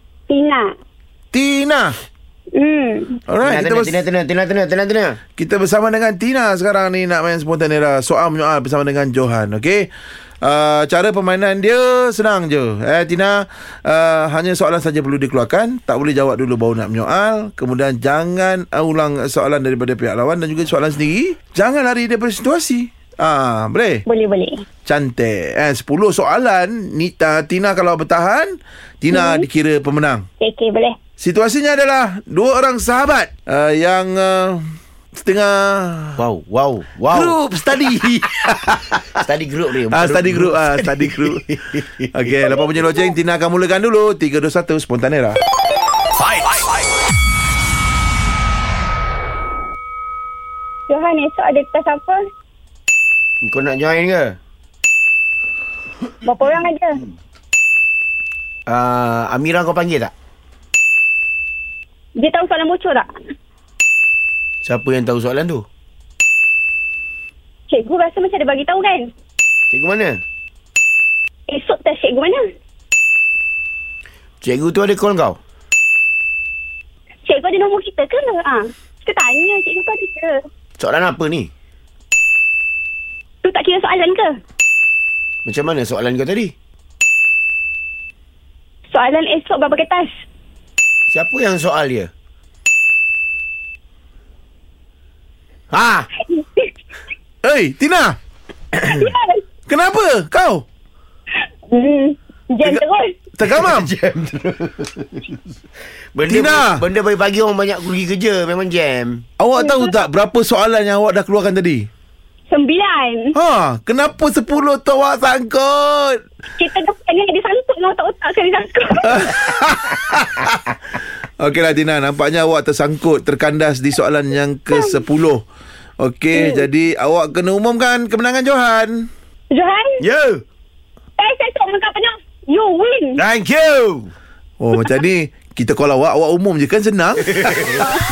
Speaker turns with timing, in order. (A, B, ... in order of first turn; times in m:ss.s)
0:00.3-0:00.7 A
0:01.3-0:01.9 B
0:02.6-0:03.2 A
0:03.3-0:04.0 B
0:03.4-0:05.2 C
0:05.4-0:09.9 B
0:10.4-0:24.0 B
0:24.1-0:24.6 A
0:24.9-0:30.2 B
0:29.1-0:29.5 A
0:30.4-0:31.0 A
0:31.2-0:34.6 B
0:35.2-0:36.2 B
0:36.2-0:37.4 C
0:37.1-0:39.2 B
0:39.2-0:42.6 C
0:39.9-0:41.5 B
0:42.1-0:45.4 B
0:50.9-0:52.2 A
0:53.4-0:54.4 C
0:56.2-0:57.0 A
0:58.7-1:00.1 C
1:02.2-1:03.1 A
1:04.6-1:05.7 C
1:07.7-1:09.1 A
1:09.7-1:10.2 C
1:11.5-1:12.4 A
1:14.4-1:15.4 C
1:17.3-1:20.4 A
1:20.8-1:21.5 C
1:23.4-1:24.3 A
1:25.4-1:26.6 C
1:28.9-1:30.1 A
1:31.1-1:32.1 C
1:35.7-1:36.1 C
1:36.3-1:36.7 A
1:37.4-1:38.2 B
1:38.8-1:39.4 A
1:39.7-1:40.6 B
1:41.7-1:43.1 A
1:43.4-1:43.9 B
1:43.4-1:45.4 C
1:46.1-1:49.2 C
1:46.3-1:46.8 B
1:49.4-1:51.9 B
1:49.6-1:49.9 A
1:52.5-1:53.4 A
1:53.4-1:56.2 B
1:56.6-1:59.3 A
1:59.0-2:00.7 B
2:01.4-2:05.4 B
2:06.0-2:09.1 B
2:06.3-2:06.7 A
2:09.5-2:10.0 A
2:10.0-2:10.4 C
2:11.2-2:13.2 A
2:13.2-2:14.1 C
2:14.6-2:17.9 B
2:17.3-2:17.8 C